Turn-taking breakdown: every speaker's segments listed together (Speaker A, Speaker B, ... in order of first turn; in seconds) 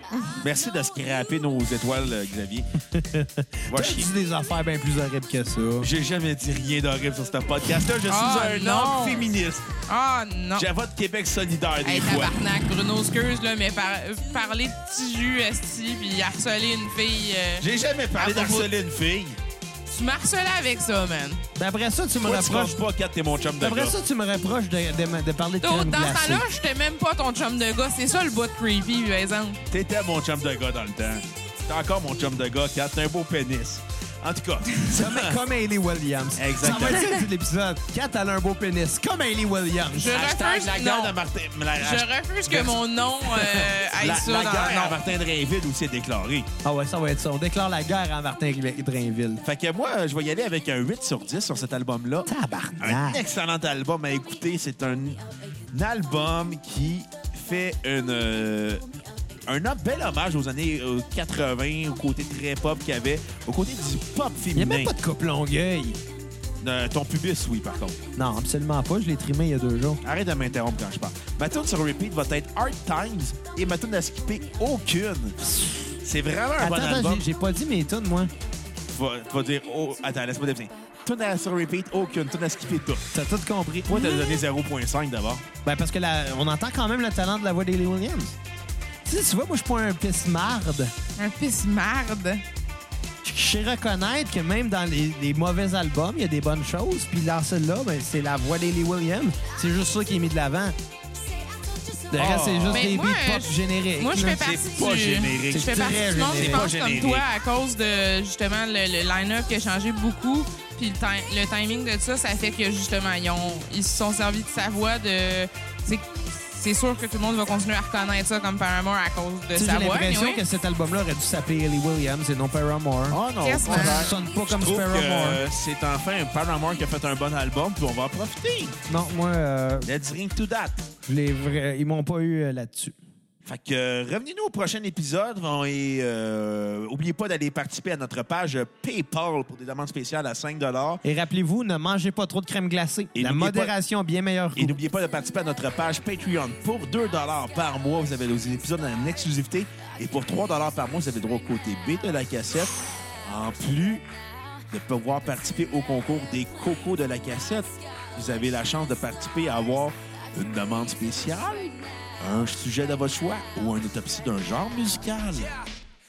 Speaker A: 0.1-0.4, 8.1-9.3, 9.9-10.7, 11.8-18.7, 19.9-21.4, 25.6-29.6, 39.9-41.2, 41.8-45.0, 91.2-92.4, 102.7-120.4, 123.4-124.1
Speaker B: 0.4-2.7, 3.7-4.1, 5.8-9.8, 10.6-12.5, 17.6-19.4, 22.2-23.9, 29.7-35.4, 36.4-37.2, 40.0-46.5, 49.4-58.9, 59.5-64.9, 66.6-68.0, 70.0-75.4, 76.0-77.2, 78.9-83.0, 83.9-85.5, 102.2-102.9, 104.4-107.3, 123.1-128.8, 129.8-130.9, 133.4-141.0, 143.1-143.7, 144.6-154.1, 154.7-165.5
Speaker C: 2.9-5.9, 21.6-22.8, 23.6-26.5, 34.9-40.1, 46.6-49.4, 52.3-53.2, 64.5-66.0, 68.2-70.0, 75.4-76.0, 76.6-78.3, 83.1-84.3, 85.6-88.4, 89.0-90.9, 93.2-100.8, 102.1-104.4, 105.5-106.7, 119.5-125.4, 128.9-129.9, 131.0-133.0, 141.0-144.8